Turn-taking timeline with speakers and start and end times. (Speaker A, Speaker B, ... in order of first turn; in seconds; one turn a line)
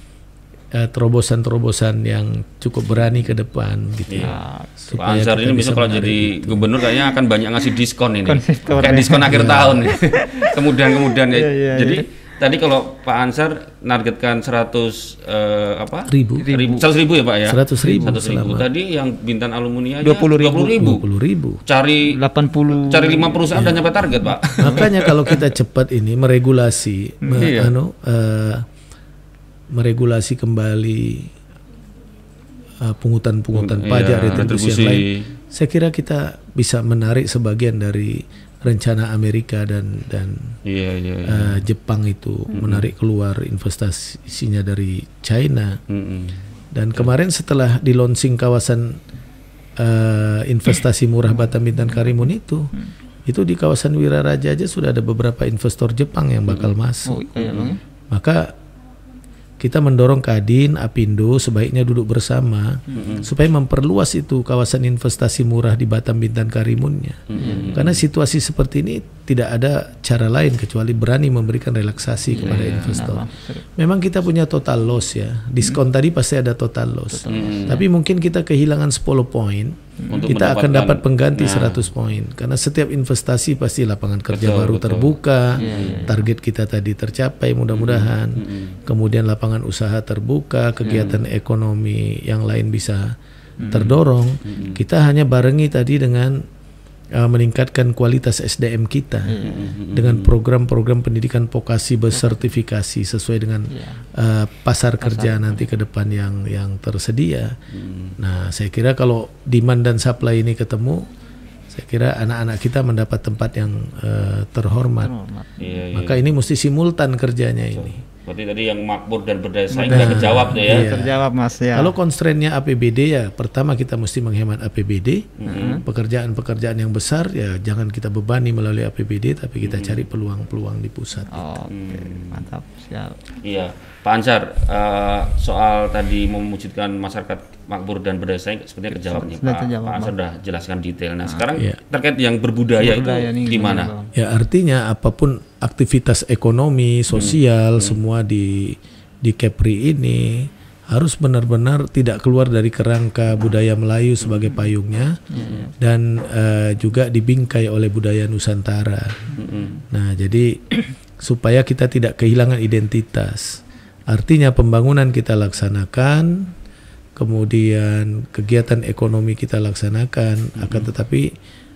Speaker A: 0.7-6.7
Speaker B: 4.1-4.3
Speaker C: 4.2-4.7
Speaker B: 4.9-21.1
Speaker C: 8.2-12.1
Speaker A: 9.3-9.8
Speaker A: 16.1-16.5
Speaker C: 16.4-16.9
Speaker A: 17.4-18.7
Speaker C: 17.8-18.2
Speaker C: 20.0-20.9
Speaker A: 20.7-21.6
Speaker B: 21.6-25.4
Speaker C: 22.1-24.9
Speaker A: 23.5-23.9
Speaker A: 24.6-28.6
Speaker C: 27.2-27.5
Speaker B: 27.4-27.7
Speaker A: 29.7-31.3
Speaker A: 32.8-40.6
Speaker B: 33.5-35.3
Speaker B: 40.6-41.6
Speaker A: 41.2-45.8
Speaker B: 42.5-42.9
Speaker B: 45.9-46.4
Speaker A: 46.7-49.0
Speaker A: 49.8-52.7
Speaker A: 53.3-57.2
Speaker C: 57.0-57.8
Speaker B: 57.4-57.8
Speaker A: 58.1-58.5
Speaker A: 59.6-93.1
Speaker B: 62.9-63.3
Speaker B: 67.3-68.0
Speaker C: 67.3-67.8
Speaker C: 72.3-73.7
Speaker B: 72.4-73.2
Speaker C: 77.1-77.8
Speaker B: 77.3-77.8
Speaker C: 80.0-80.3
Speaker B: 80.1-81.9
Speaker B: 84.3-86.1
Speaker C: 85.5-86.3
Speaker B: 87.7-88.8
Speaker B: 90.8-91.2
Speaker C: 93.6-93.9
Speaker A: 93.7-96.4
Speaker B: 94.4-94.8
Speaker A: 97.2-99.3
Speaker C: 99.3-99.8
Speaker B: 99.4-100.3
Speaker A: 99.9-107.5
Speaker C: 102.1-102.5
Speaker C: 103.7-104.0
Speaker C: 105.0-105.7
Speaker B: 107.7-108.2
Speaker A: 108.2-111.0
Speaker A: 111.7-115.1
Speaker C: 115.0-115.8
Speaker B: 115.6-116.3
Speaker A: 115.9-118.0
Speaker B: 117.7-121.0
Speaker C: 119.7-121.9
Speaker A: 119.9-131.5
Speaker B: 125.4-125.8
Speaker C: 125.5-125.8
Speaker B: 129.7-130.0
Speaker C: 131.3-133.2
Speaker B: 131.7-132.5
Speaker B: 133.4-143.9
Speaker C: 138.9-140.1
Speaker C: 142.8-144.1
Speaker A: 144.1-155.2
Speaker B: 147.1-148.0
Speaker C: 155.3-155.7
Speaker B: 155.4-155.7
Speaker A: 155.8-159.2
Speaker B: 159.3-159.8
Speaker C: 159.3-159.7
Speaker A: 159.9-166.5
Speaker A: 167.2-171.3
Speaker B: 170.6-170.9